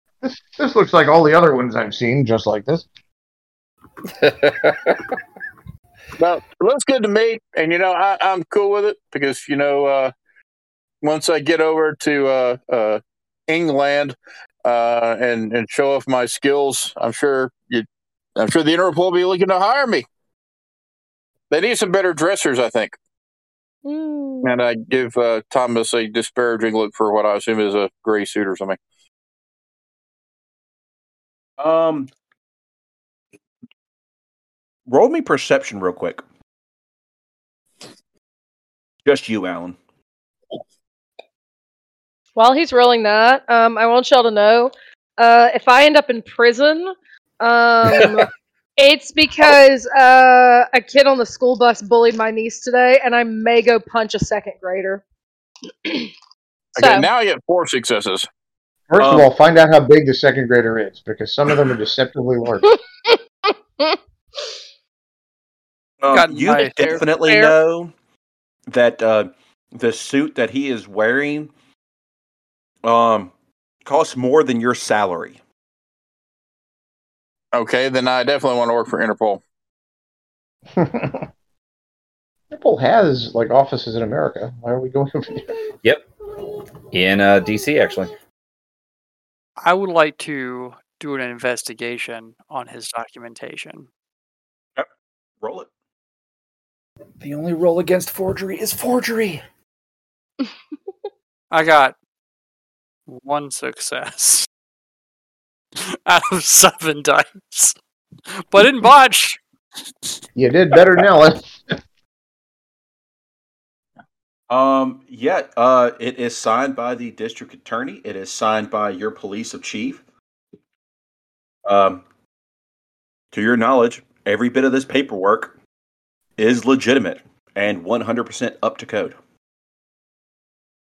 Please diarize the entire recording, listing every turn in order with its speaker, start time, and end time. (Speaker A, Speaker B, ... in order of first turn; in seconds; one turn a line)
Speaker A: 0.2-2.9
Speaker B: 4.1-5.2
Speaker C: 6.2-10.1
Speaker C: 11.0-17.9
Speaker C: 18.4-20.1
Speaker C: 21.5-23.0
Speaker D: 23.8-24.5
Speaker C: 24.4-28.8
Speaker E: 31.6-32.1
Speaker E: 34.9-36.2
Speaker E: 39.0-39.8
Speaker D: 42.4-55.0
Speaker D: 55.8-56.1
Speaker C: 56.7-58.3
Speaker D: 56.8-57.1
Speaker A: 58.9-62.6
Speaker E: 59.0-59.3
Speaker D: 62.6-64.5
Speaker E: 66.0-67.9
Speaker F: 66.1-67.0
Speaker D: 66.8-67.5
Speaker E: 68.7-71.5
Speaker E: 72.8-73.3
Speaker E: 73.8-75.4
Speaker C: 77.5-79.4
Speaker A: 80.8-81.3
Speaker A: 82.5-85.5
Speaker B: 86.9-88.1
Speaker F: 89.6-93.9
Speaker E: 95.4-95.7
Speaker B: 97.2-99.4
Speaker F: 101.5-101.9
Speaker F: 103.1-104.5
Speaker F: 105.8-107.7
Speaker F: 108.5-109.4
Speaker A: 110.3-111.8
Speaker E: 114.5-120.0
Speaker E: 121.7-122.0
Speaker E: 123.3-125.5
Speaker E: 126.4-129.2